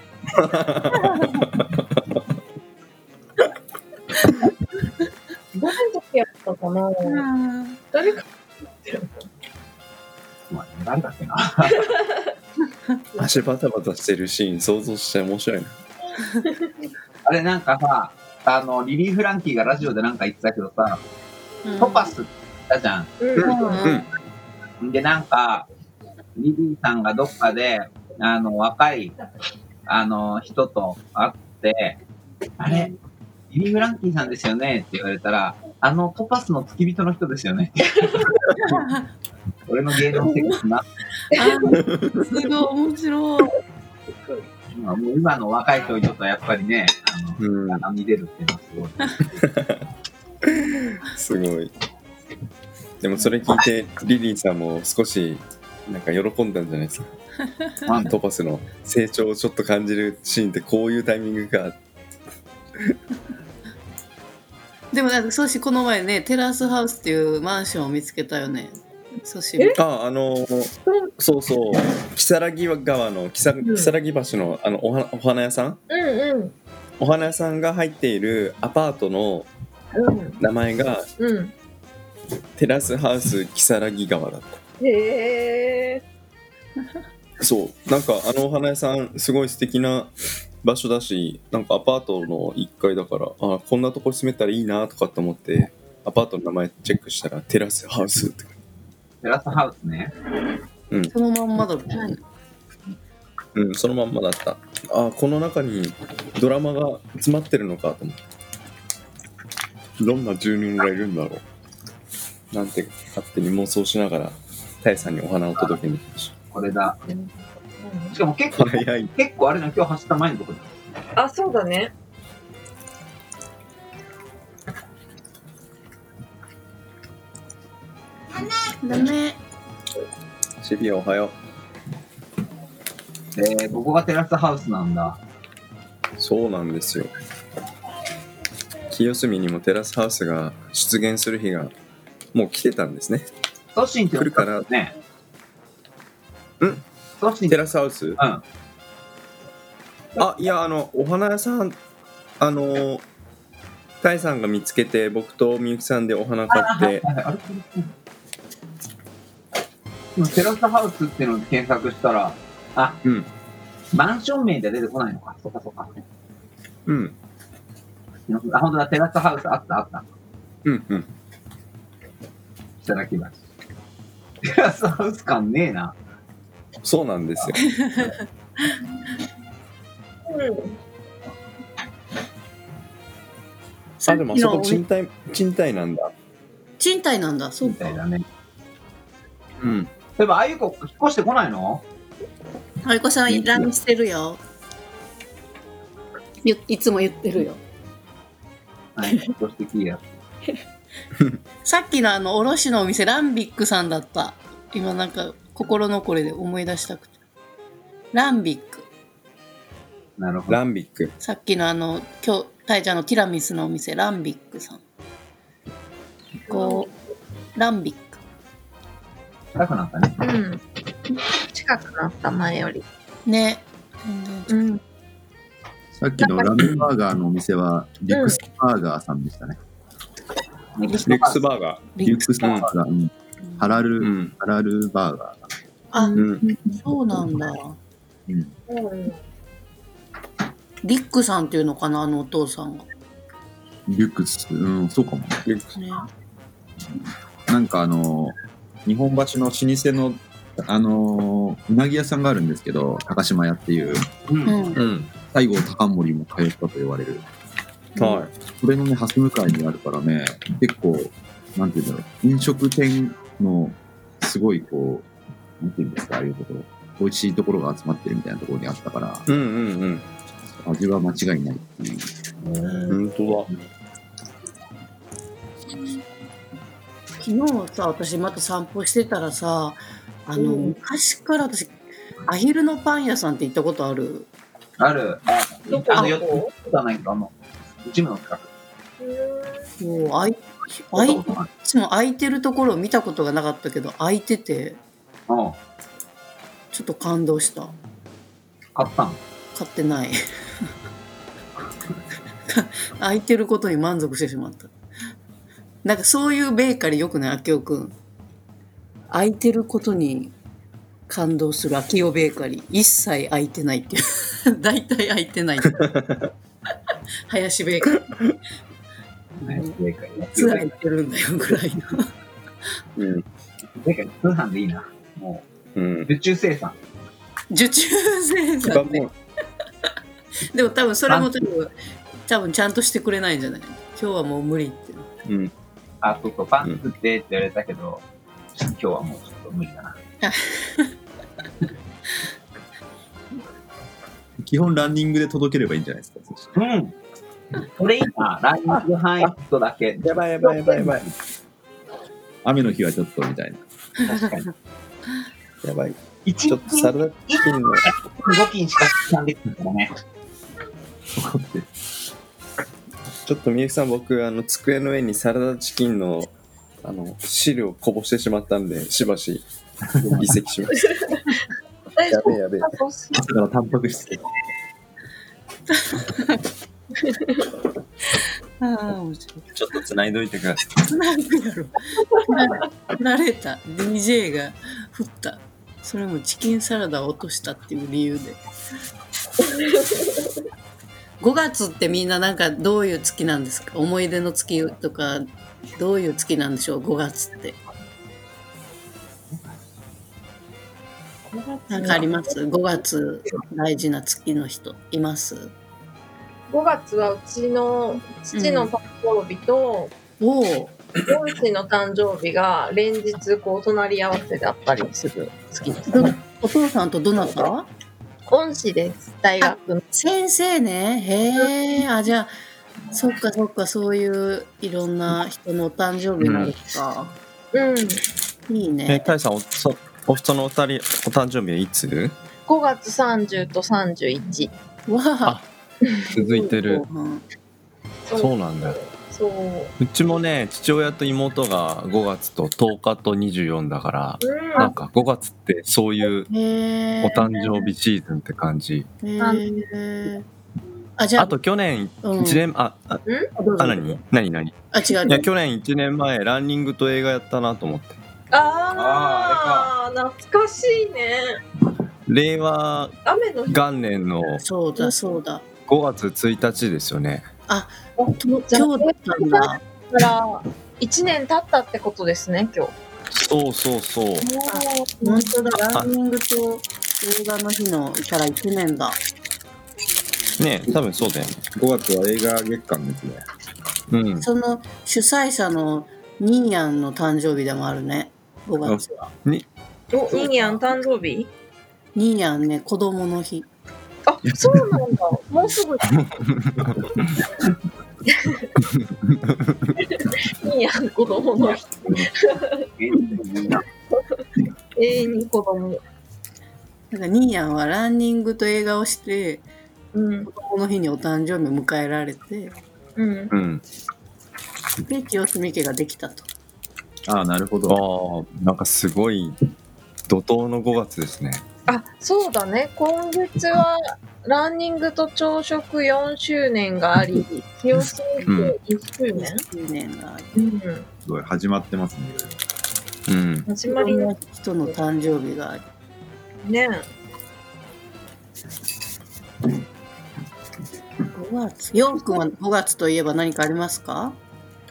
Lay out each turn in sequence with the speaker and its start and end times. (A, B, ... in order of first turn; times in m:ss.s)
0:00.4-0:02.2 A
0:01.1-0:01.4 B
0:05.5-0:07.2 C
0:07.0-0:07.8 B
0:07.9-0:08.2 C
0:08.8-0:09.1 C
0:10.5-0:11.9 D
0:11.9-0:12.2 C
0:13.2-0:15.7 A
0:16.4-0:16.7 C
0:17.2-0:21.0 D
0:21.6-0:22.1 B
0:21.8-0:23.2 D
0:23.2-0:23.9 C
0:23.4-0:24.1 A
0:23.4-0:24.0 B
0:24.8-0:25.7 D
0:26.3-0:29.1 D
0:29.9-0:32.0 D
0:32.6-0:32.9 D
0:33.5-0:38.3 D
0:38.6-0:39.1 B
0:39.7-0:40.8 D
0:41.3-0:41.8 C
0:41.3-0:43.5 B
0:41.8-0:42.2 A
0:44.7-0:49.4 D
0:47.4-0:47.8 A
0:49.4-0:49.8 A
0:50.4-0:51.7 A
0:53.0-0:57.1 A
0:57.8-0:58.1 D
0:57.9-1:01.8 A
1:04.9-1:09.8 B
1:09.7-1:15.8 A
1:13.6-1:13.9 C
1:15.9-1:16.5 C
1:17.0-1:19.5 A
1:19.9-1:20.4 C
1:20.4-1:21.1 A
1:21.2-1:21.5 C
1:22.6-1:24.6 A
1:24.8-1:26.0 C
1:27.4-1:38.5 A
1:39.2-1:40.1 D
1:41.1-1:42.2 B
1:43.5-1:48.2 A
1:50.0-1:51.4 A
1:52.5-1:56.3 A
1:56.5-1:57.0 D
1:57.0-1:58.2 C
1:58.1-2:00.8 D
1:58.5-1:59.1 A
2:01.2-2:01.9 C
2:08.8-2:09.4 B
2:10.6-2:11.4 A
2:13.4-2:15.2 D
2:16.2-2:17.1 A
2:18.9-2:21.7 A
2:22.3-2:23.3 A
2:23.7-2:24.9 D
2:24.2-2:24.7 A
2:26.6-2:26.8 A
2:27.2-2:27.6 D
2:27.5-2:28.2 A
2:28.2-2:28.4 D
2:30.2-2:31.8 A
2:32.4-2:33.0 A
2:34.0-2:37.0 A
2:36.5-2:37.9 D
2:40.1-2:43.0 D
2:43.9-2:46.0 D
2:46.8-2:47.2 A
2:48.3-2:50.1 D
2:50.6-2:51.1 A
2:52.8-2:53.4 D
2:54.4-2:56.0 D
2:56.8-2:57.6 A
2:57.6-2:58.2 B
3:00.3-3:00.8 C
3:04.0-3:04.8 B
3:04.1-3:06.1 A
3:06.8-3:08.0 B
3:07.6-3:08.2 D
3:09.6-3:09.9 A
3:10.2-3:11.8 D
3:12.8-3:14.4 B
3:16.4-3:17.6 B
3:19.0-3:20.1 D
3:21.6-3:27.1 B
3:28.1-3:28.9 B
3:30.2-3:30.6 D
3:30.5-3:31.1 A
3:31.2-3:34.8 B
3:36.5-3:36.9 B
3:36.5-3:36.9 C
3:37.6-3:38.2 B
3:39.5-3:40.2 D
3:40.2-3:40.6 C
3:41.5-3:42.8 C
3:43.2-3:44.7 B
3:44.5-3:44.8 C
3:46.0-3:49.6 E
3:46.2-3:46.7 C
3:48.1-3:48.4 C
3:50.8-3:51.5 D
3:51.0-3:51.9 A
3:52.0-3:52.4 B
3:52.0-3:55.4 E
3:52.4-3:52.7 A
3:54.0-3:54.3 A
3:55.9-3:57.8 B
3:56.0-3:56.2 C
3:56.1-3:56.4 A
3:58.3-3:58.5 E
3:58.7-3:59.2 C
4:00.8-4:02.9 B
4:03.9-4:05.5 E
4:05.4-4:05.8 A
4:05.8-4:06.1 B
4:07.5-4:14.1 E
4:14.3-4:14.6 D
4:14.5-4:14.8 B
4:14.7-4:15.1 A
4:15.3-4:17.2 E
4:18.0-4:18.3 A
4:18.0-4:18.2 B
4:18.5-4:25.1 E
4:25.6-4:29.2 E
4:29.3-4:30.0 A
4:30.6-4:32.1 E
4:32.4-4:33.6 D
4:32.9-4:33.5 A
4:37.2-4:44.3 B
4:40.4-4:40.8 C
4:44.8-4:48.5 D
4:45.7-4:46.5 C
4:49.0-4:49.7 C
4:49.8-4:54.8 B
4:50.9-4:51.5 D
4:55.3-4:55.6 D
4:56.7-4:57.7 B
4:58.7-4:59.2 D
4:59.5-5:00.2 B
5:02.5-5:04.7 B
5:05.8-5:07.9 B
5:09.1-5:10.3 B
5:11.1-5:15.9 B
5:15.6-5:16.3 A
5:17.3-5:18.0 B
5:18.0-5:18.4 A
5:19.4-5:20.7 D
5:20.3-5:22.1 B
5:23.0-5:23.2 A
5:23.7-5:25.5 D
5:25.7-5:26.1 A
5:26.0-5:26.8 D
5:27.5-5:29.0 B
5:28.6-5:29.1 A
5:30.5-5:31.7 B
5:32.2-5:35.1 B
5:35.2-5:35.5 A
5:36.0-5:40.0 D
5:40.2-5:40.9 B
5:44.4-5:46.5 E
5:46.5-5:46.9 D
5:47.8-5:51.1 D
5:50.0-5:51.1 A
5:52.4-5:53.6 E
5:54.1-5:54.4 D
5:55.6-5:57.9 A
5:56.2-6:00.0 D
6:01.2-6:01.7 E
6:03.2-6:06.3 A
6:06.8-6:09.4 A
6:10.0-6:10.9 A
6:10.7-6:11.4 C
6:12.0-6:13.2 C
6:12.0-6:12.7 A
6:13.1-6:14.2 E
6:15.7-6:16.4 B
6:17.0-6:17.4 C
6:18.6-6:19.5 B
6:19.5-6:20.7 A
6:20.8-6:28.4 B
6:29.4-6:30.3 C
6:31.2-6:37.6 B
6:41.4-6:42.0 C
6:41.7-6:45.5 B
6:46.5-6:49.9 C
6:48.3-6:48.7 B
6:50.2-6:50.8 B
6:51.0-6:55.8 C
6:55.7-6:57.7 B
6:58.3-6:59.8 C
6:59.4-7:02.3 B
7:02.9-7:07.1 B
7:06.2-7:06.5 A
7:07.5-7:08.0 C
7:08.5-7:09.1 B
7:08.9-7:12.1 A
7:12.4-7:14.5 C
7:14.9-7:15.4 B
7:16.0-7:16.8 A
7:16.2-7:17.2 B
7:18.1-7:19.7 C
7:18.1-7:18.8 A
7:19.8-7:26.3 A
7:24.2-7:24.7 C
7:26.3-7:27.7 B
7:27.0-7:28.9 A
7:29.0-7:30.2 B
7:31.0-7:31.4 B
7:31.2-7:33.0 A
7:32.0-7:32.4 B
7:33.0-7:33.3 C
7:33.4-7:34.0 B
7:33.6-7:38.0 A
7:34.7-7:35.3 B
7:38.3-7:41.4 C
7:38.7-7:39.7 D
7:42.1-7:42.9 A
7:43.0-7:43.9 C
7:43.5-7:44.4 A
7:44.4-7:45.4 B
7:44.8-7:45.1 C
7:45.6-7:47.3 A
7:47.5-7:49.6 B
7:48.0-7:52.7 C
7:53.1-7:54.3 A
7:54.2-7:55.3 C
7:54.4-7:59.0 B
8:00.4-8:01.4 A
8:01.5-8:03.2 E
8:03.9-8:04.3 A
8:04.2-8:09.1 B
8:09.9-8:11.3 C
8:10.1-8:10.5 A
8:11.9-8:13.5 B
8:14.0-8:16.0 C
8:15.9-8:17.1 A
8:18.0-8:18.6 C
8:18.6-8:19.7 A
8:19.8-8:22.6 C
8:21.4-8:22.0 D
8:22.8-8:23.6 D
8:23.9-8:24.2 C
8:24.8-8:25.8 C
8:26.9-8:29.4 B
8:29.9-8:30.3 C
8:30.3-8:32.6 B
8:33.0-8:33.3 C
8:33.3-8:33.6 A
8:34.8-8:36.3 B
8:37.0-8:37.8 E
8:37.7-8:39.4 A
8:40.1-8:41.4 A
8:41.7-8:49.4 C
8:48.2-8:48.6 A
8:49.1-8:50.3 B
8:50.3-8:50.9 C
8:51.0-8:52.4 E
8:53.1-8:53.5 A
8:53.5-8:54.1 C
8:53.6-8:55.6 B
8:56.4-8:56.8 C
9:01.1-9:04.2 B